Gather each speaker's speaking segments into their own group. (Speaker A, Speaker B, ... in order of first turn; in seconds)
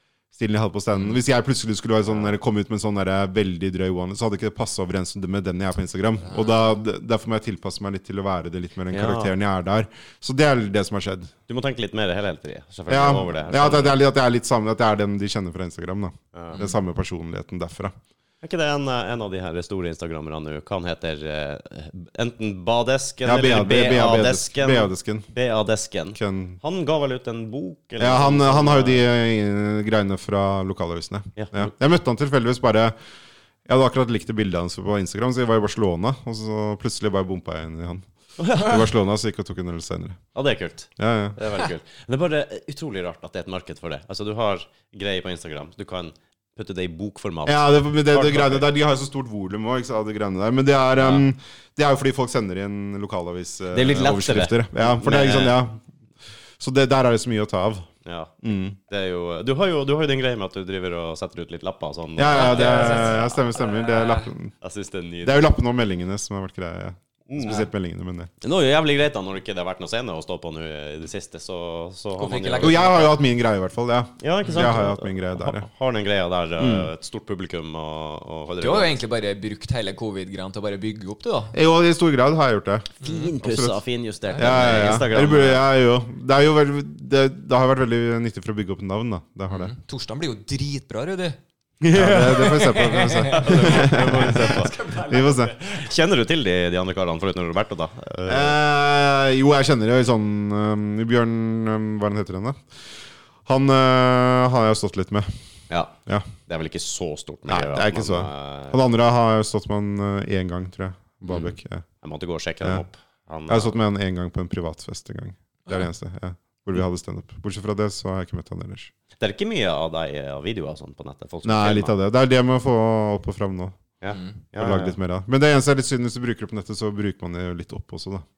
Speaker A: 0.3-11.3, 12.9-17.9, 23.2-25.3, 26.1-26.6, 28.0-32.9, 33.6-40.2, 41.0-41.4, 47.5-55.8, 56.6-57.9, 58.4-58.8, 62.1-64.5, 65.2-68.3, 72.6-75.7, 76.6-76.9, 81.5-83.8, 84.3-89.7, 91.8-95.5, 98.3-102.6, 103.5-105.3, 107.5-111.8, 113.5-118.9, 121.4-123.8, 124.5-128.2
Speaker B: 2.1-2.3, 8.9-9.3, 11.5-14.0, 16.3-16.6, 18.4-29.0, 31.4-31.7, 38.4-38.9, 40.3-48.7, 51.0-51.2, 53.7-55.6, 58.0-63.3, 64.6-65.5, 67.3-67.7, 68.4-73.0, 74.2-79.0, 83.0-85.6, 92.0-92.2, 93.3-94.8, 95.6-98.6, 105.7-105.9, 106.5-108.8, 111.2-113.8, 119.2-121.9, 124.0-125.0
Speaker C: 6.3-6.6, 16.5-16.8, 62.3-64.3, 72.2-73.2, 78.6-81.5, 83.0-83.3, 84.3-84.7, 89.5-91.4, 91.9-95.9, 124.1-124.4